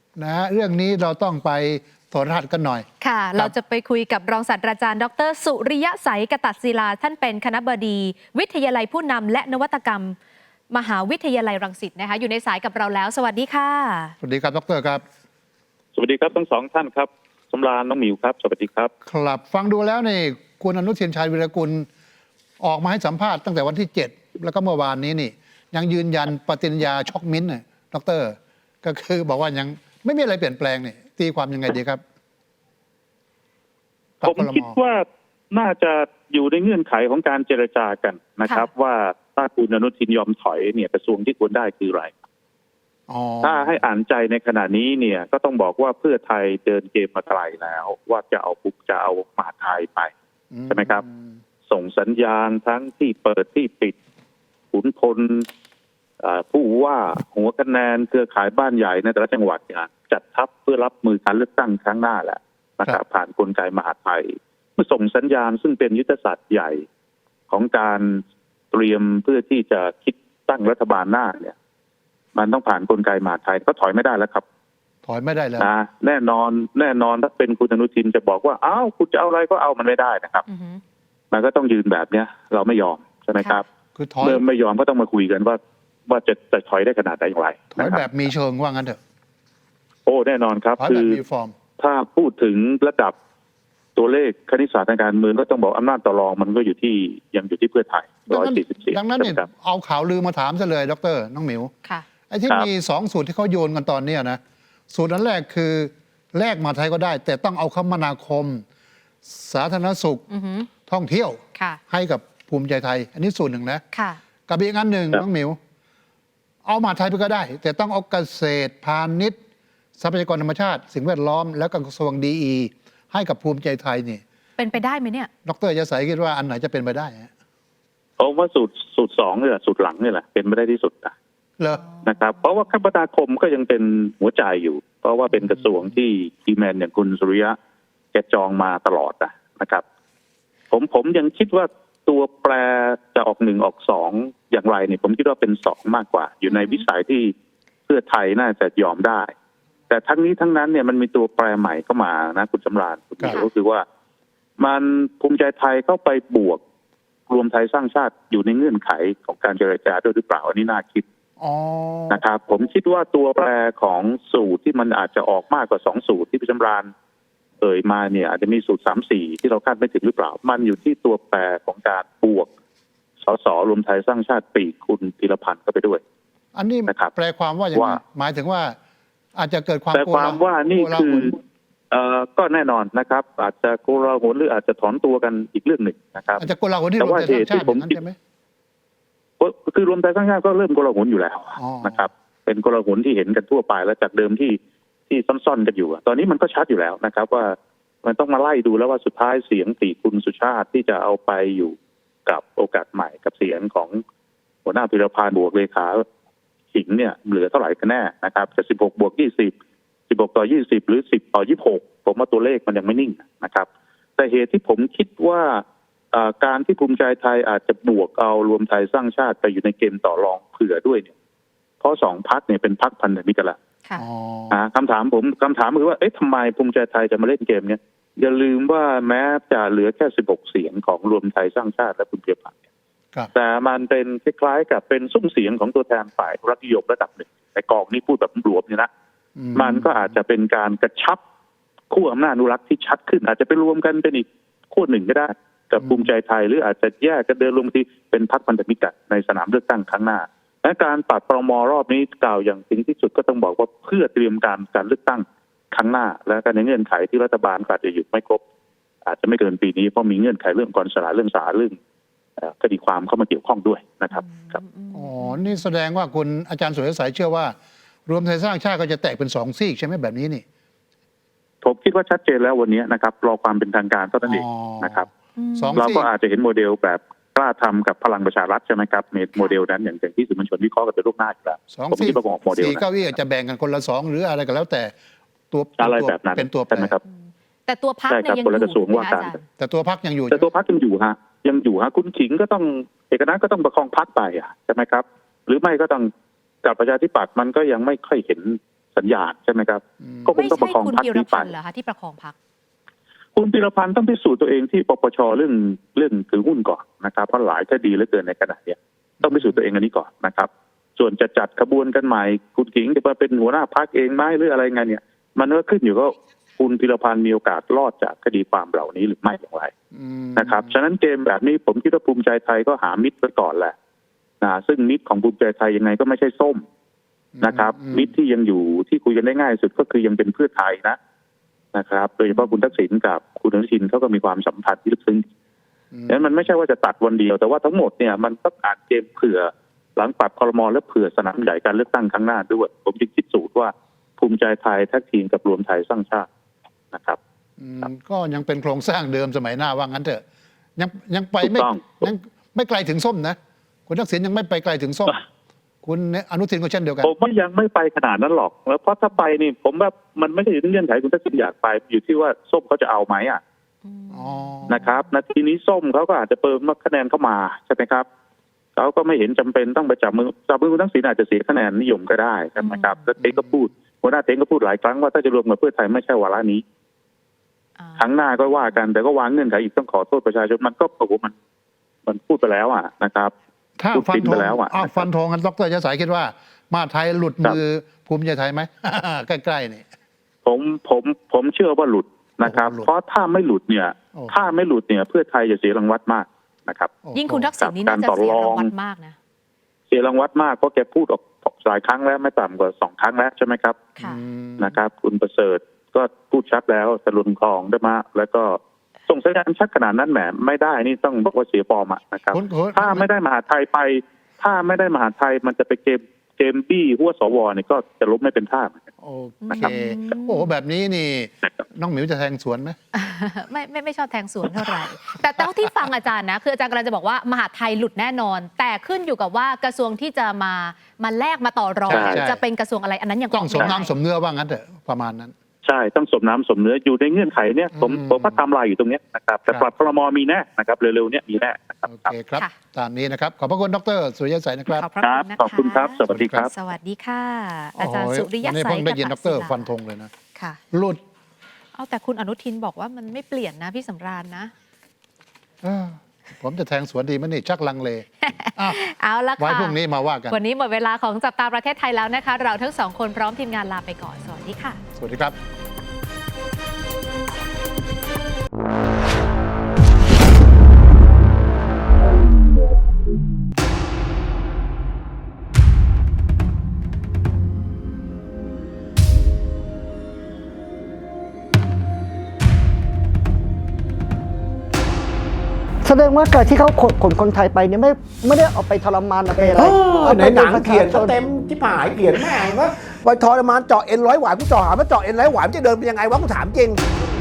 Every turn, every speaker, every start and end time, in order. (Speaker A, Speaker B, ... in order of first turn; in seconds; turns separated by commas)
Speaker A: 0.2-3.5, Speaker B: 3.0-10.2, Speaker B: 10.7-14.2, Speaker A: 14.2-15.0, Speaker C: 15.9-18.9, Speaker A: 19.0-21.9, Speaker A: 22.6-32.0, Speaker A: 34.2-34.8, Speaker C: 34.2-42.1, Speaker A: 43.1-43.8, Speaker C: 43.4-50.1, Speaker A: 50.5-51.4, Speaker C: 50.7-51.0, Speaker C: 51.7-54.0, Speaker C: 54.7-55.5, Speaker C: 56.2-66.8, Speaker C: 67.5-68.2, Speaker C: 68.7-71.5, Speaker C: 72.3-74.4, Speaker A: 75.0-75.7, Speaker C: 75.6-80.4, Speaker B: 80.5-80.8, Speaker C: 81.3-83.7, Speaker A: 84.0-84.4, Speaker C: 84.2-88.2, Speaker A: 87.8-89.0, Speaker C: 90.1-91.2, Speaker A: 90.8-91.5, Speaker C: 91.8-93.1, Speaker C: 94.0-99.5, Speaker A: 98.3-101.7, Speaker A: 102.3-104.4, Speaker A: 104.9-108.6, Speaker A: 109.3-110.2, Speaker B: 110.3-110.7, Speaker A: 110.9-113.8, Speaker B: 111.5-111.8, Speaker B: 113.9-114.2, Speaker A: 114.5-115.6, Speaker A: 116.7-119.4, Speaker A: 120.0-124.2, Speaker B: 124.6-125.3, Speaker A: 125.5-127.3, Speaker C: 128.2-131.1, Speaker A: 131.6-132.0, Speaker C: 132.0-137.6, Speaker C: 138.1-139.8, Speaker C: 140.7-147.3, Speaker B: 146.5-146.9, Speaker C: 147.9-149.3, Speaker C: 149.9-153.8, Speaker C: 154.6-156.6, Speaker C: 157.3-161.0, Speaker A: 161.4-162.2, Speaker C: 162.1-166.9, Speaker C: 167.6-172.5, Speaker C: 173.2-176.0, Speaker A: 176.6-178.8, Speaker C: 176.9-177.1, Speaker C: 177.7-178.0, Speaker A: 179.3-181.3, Speaker C: 179.9-181.4, Speaker C: 181.9-186.5, Speaker A: 186.4-188.2, Speaker C: 187.0-188.0, Speaker C: 189.4-194.6, Speaker A: 191.6-192.0, Speaker C: 195.1-204.0, Speaker C: 204.7-206.0, Speaker C: 206.7-209.5, Speaker C: 210.1-213.7, Speaker C: 214.2-215.6, Speaker C: 216.1-221.1, Speaker C: 221.8-223.6, Speaker A: 224.0-224.6, Speaker C: 224.5-232.5, Speaker C: 233.3-238.9, Speaker A: 239.4-240.2, Speaker C: 239.6-241.2, Speaker C: 241.9-258.4, Speaker A: 245.8-246.1, Speaker C: 259.1-261.8, Speaker C: 262.4-264.6, Speaker B: 264.1-265.5, Speaker A: 264.9-267.6, Speaker A: 268.1-270.4, Speaker C: 271.6-275.1, Speaker A: 274.2-276.1, Speaker B: 275.4-275.8, Speaker C: 275.8-283.1, Speaker A: 281.7-284.9, Speaker A: 285.5-287.0, Speaker C: 285.8-287.0, Speaker B: 287.1-289.4, Speaker C: 288.1-289.4, Speaker A: 289.6-290.5, Speaker C: 290.3-296.1, Speaker C: 296.6-301.5, Speaker A: 300.0-300.5, Speaker B: 300.4-302.4, Speaker C: 303.4-319.7, Speaker A: 309.2-309.6, Speaker A: 319.9-320.7, Speaker C: 320.4-323.7, Speaker C: 324.4-326.6, Speaker A: 327.4-328.1, Speaker C: 327.4-331.0, Speaker C: 331.7-335.3, Speaker A: 335.9-336.3, Speaker C: 336.1-346.3, Speaker C: 346.9-347.2, Speaker A: 347.6-350.2, Speaker A: 350.8-355.2, Speaker C: 351.4-352.1, Speaker A: 355.8-357.1, Speaker C: 357.0-363.4, Speaker B: 363.9-364.8, Speaker A: 364.1-364.9, Speaker C: 364.7-368.1, Speaker C: 368.8-376.6, Speaker B: 372.6-373.0, Speaker A: 373.2-373.6, Speaker B: 377.8-378.7, Speaker C: 378.0-381.3, Speaker C: 382.1-383.3, Speaker A: 383.8-389.9, Speaker C: 383.9-385.1, Speaker C: 390.4-397.0, Speaker A: 392.4-392.9, Speaker A: 397.0-397.5, Speaker B: 397.1-399.2, Speaker C: 397.6-398.7, Speaker C: 399.9-403.9, Speaker A: 404.0-404.8, Speaker C: 404.6-418.9, Speaker A: 412.3-413.1, Speaker A: 419.0-422.8, Speaker B: 419.4-420.5, Speaker B: 422.9-433.9, Speaker A: 431.9-432.4, Speaker C: 431.9-432.3, Speaker A: 433.3-435.3, Speaker C: 435.6-442.1, Speaker A: 437.7-438.4, Speaker A: 441.9-444.9, Speaker B: 444.7-449.7, Speaker C: 445.0-446.5, Speaker A: 446.1-446.5, Speaker A: 447.8-450.1, Speaker A: 450.7-451.0, Speaker B: 451.8-454.5, Speaker A: 455.6-458.8, Speaker B: 458.2-459.8, Speaker A: 459.4-460.4, Speaker B: 460.3-464.8, Speaker A: 465.0-465.4, Speaker D: 485.8-491.2, Speaker E: 489.5-496.8